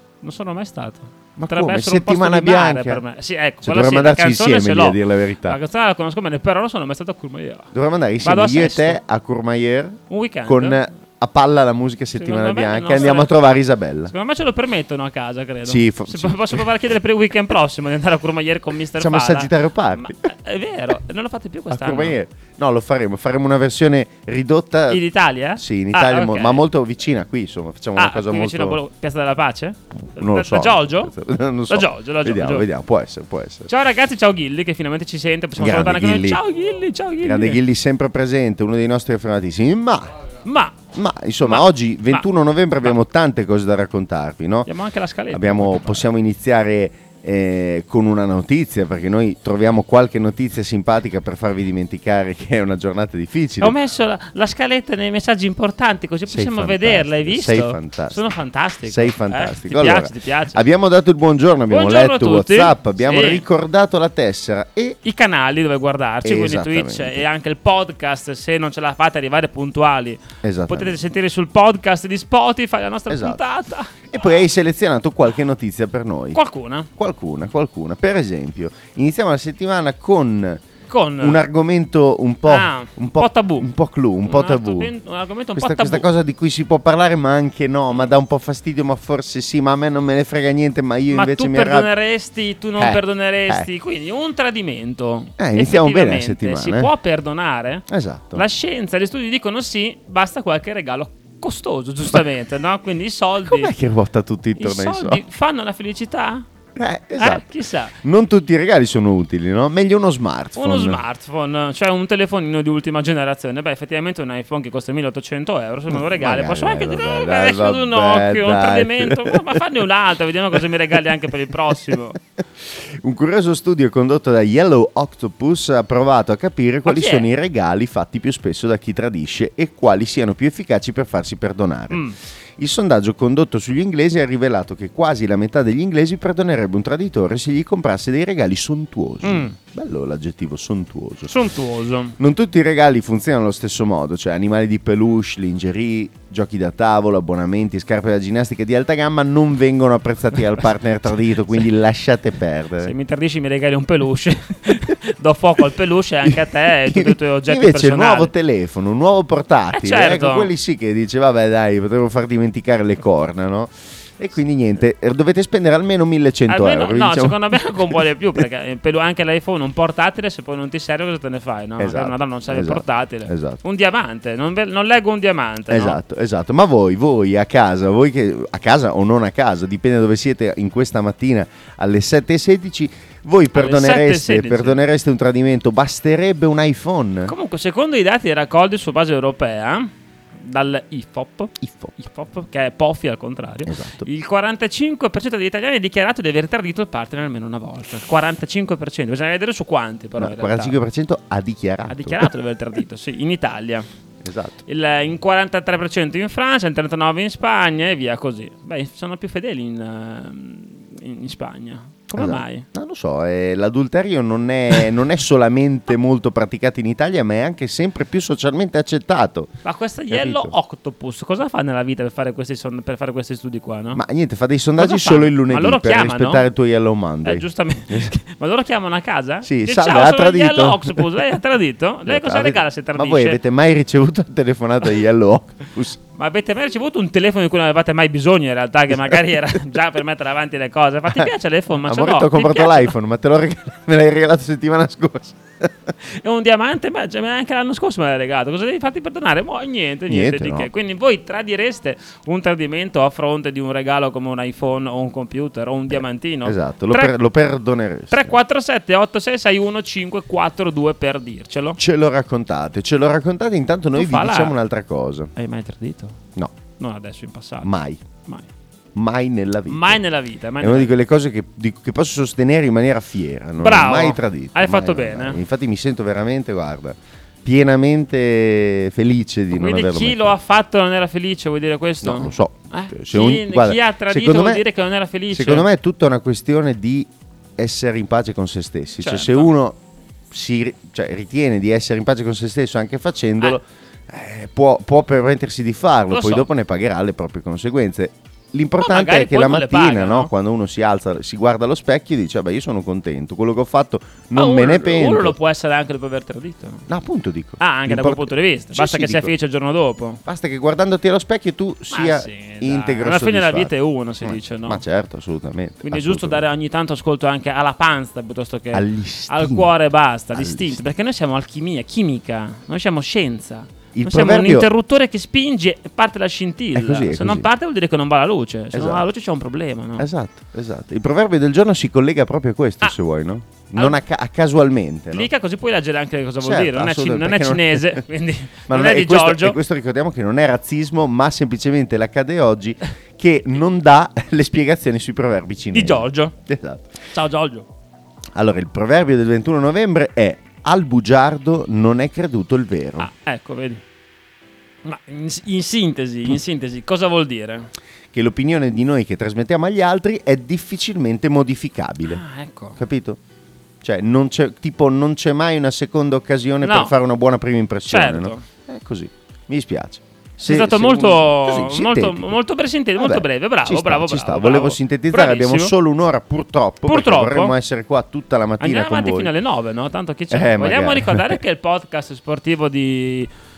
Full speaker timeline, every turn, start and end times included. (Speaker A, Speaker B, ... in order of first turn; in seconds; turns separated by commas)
Speaker A: 0.2-7.7, Speaker B: 1.4-3.0, Speaker B: 3.6-5.6, Speaker B: 7.7-14.1, Speaker A: 8.2-9.0, Speaker A: 10.1-10.8, Speaker A: 12.2-13.3, Speaker A: 14.1-22.2, Speaker B: 15.7-16.7, Speaker B: 19.0-20.3, Speaker B: 21.7-25.0, Speaker A: 24.9-26.6, Speaker B: 25.6-28.8, Speaker A: 28.0-31.1, Speaker B: 30.1-33.7, Speaker A: 31.7-32.6, Speaker A: 33.7-37.6, Speaker B: 35.6-36.4, Speaker B: 37.2-40.2, Speaker A: 40.5-40.8, Speaker B: 40.9-44.7, Speaker A: 41.4-42.3, Speaker A: 44.7-46.1, Speaker B: 45.3-53.8, Speaker A: 53.6-60.6, Speaker B: 56.3-65.0, Speaker A: 61.7-63.4, Speaker A: 65.0-73.9, Speaker B: 66.2-67.2, Speaker B: 70.4-71.0, Speaker B: 73.1-73.4, Speaker B: 74.1-76.4, Speaker A: 76.3-76.9, Speaker B: 77.0-80.6, Speaker A: 80.9-81.4, Speaker B: 81.2-84.9, Speaker A: 82.5-83.7, Speaker A: 84.2-86.1, Speaker B: 85.6-91.9, Speaker A: 91.1-103.7, Speaker B: 92.8-93.7, Speaker B: 95.4-96.9, Speaker B: 97.9-98.4, Speaker B: 103.5-105.2, Speaker A: 104.6-106.5, Speaker B: 106.8-107.5, Speaker A: 107.2-108.0, Speaker B: 108.0-111.0, Speaker A: 110.6-122.2, Speaker B: 115.9-119.6, Speaker B: 122.6-132.0, Speaker A: 126.8-127.3, Speaker A: 131.9-132.2, Speaker B: 132.6-141.3, Speaker A: 139.2-139.6, Speaker A: 141.3-142.2, Speaker B: 142.2-152.9, Speaker A: 152.8-158.3, Speaker B: 156.2-168.0, Speaker A: 159.7-160.5, Speaker A: 166.5-176.0, Speaker B: 171.8-173.6, Speaker B: 175.7-187.3, Speaker A: 183.5-184.8, Speaker A: 187.3-200.8, Speaker B: 191.6-191.9, Speaker B: 193.7-194.1, Speaker B: 200.2-202.3, Speaker A: 201.9-203.9, Speaker B: 204.2-204.6, Speaker A: 204.7-212.7, Speaker B: 212.2-219.5, Speaker A: 219.6-224.0, Speaker B: 220.1-220.5, Speaker B: 223.9-228.1, Speaker A: 224.8-226.4, Speaker A: 227.2-233.4, Speaker B: 229.4-231.0, Speaker B: 232.1-236.0, Speaker A: 236.2-242.9, Speaker B: 241.8-245.7, Speaker A: 246.1-257.1, Speaker B: 250.1-250.7, Speaker B: 255.9-258.4, Speaker A: 258.1-261.8, Speaker B: 261.8-265.3, Speaker A: 263.9-264.6, Speaker A: 265.4-266.2, Speaker A: 266.8-267.7, Speaker B: 267.6-268.0, Speaker B: 268.9-270.0, Speaker A: 269.7-270.9, Speaker B: 270.6-280.4, Speaker A: 273.6-275.4, Speaker A: 279.5-285.7, Speaker B: 282.0-284.6, Speaker B: 285.3-289.8, Speaker A: 289.0-289.5, Speaker B: 290.3-305.4, Speaker A: 296.1-296.5, Speaker A: 298.8-300.3, Speaker A: 304.3-306.9, Speaker B: 306.9-309.3, Speaker A: 307.6-310.2, Speaker B: 310.2-316.4, Speaker A: 311.9-314.8, Speaker A: 315.8-330.1, Speaker B: 318.7-319.7, Speaker B: 320.3-320.8, Speaker B: 323.9-324.7, Speaker B: 326.8-327.5, Speaker B: 328.7-329.1, Speaker B: 330.0-335.3, Speaker A: 335.1-339.6, Speaker B: 336.4-338.0, Speaker B: 338.7-346.9, Speaker A: 345.7-346.3, Speaker A: 347.1-347.7, Speaker B: 348.4-353.1, Speaker A: 353.0-353.8, Speaker A: 354.9-357.7, Speaker B: 358.1-362.2, Speaker A: 362.1-362.8, Speaker B: 362.8-363.2, Speaker B: 363.8-372.4, Speaker A: 366.6-366.9, Speaker A: 367.9-368.4, Speaker A: 370.4-375.7, Speaker B: 373.0-379.3, Speaker A: 376.9-377.5, Speaker A: 378.6-383.3, Speaker B: 380.3-381.4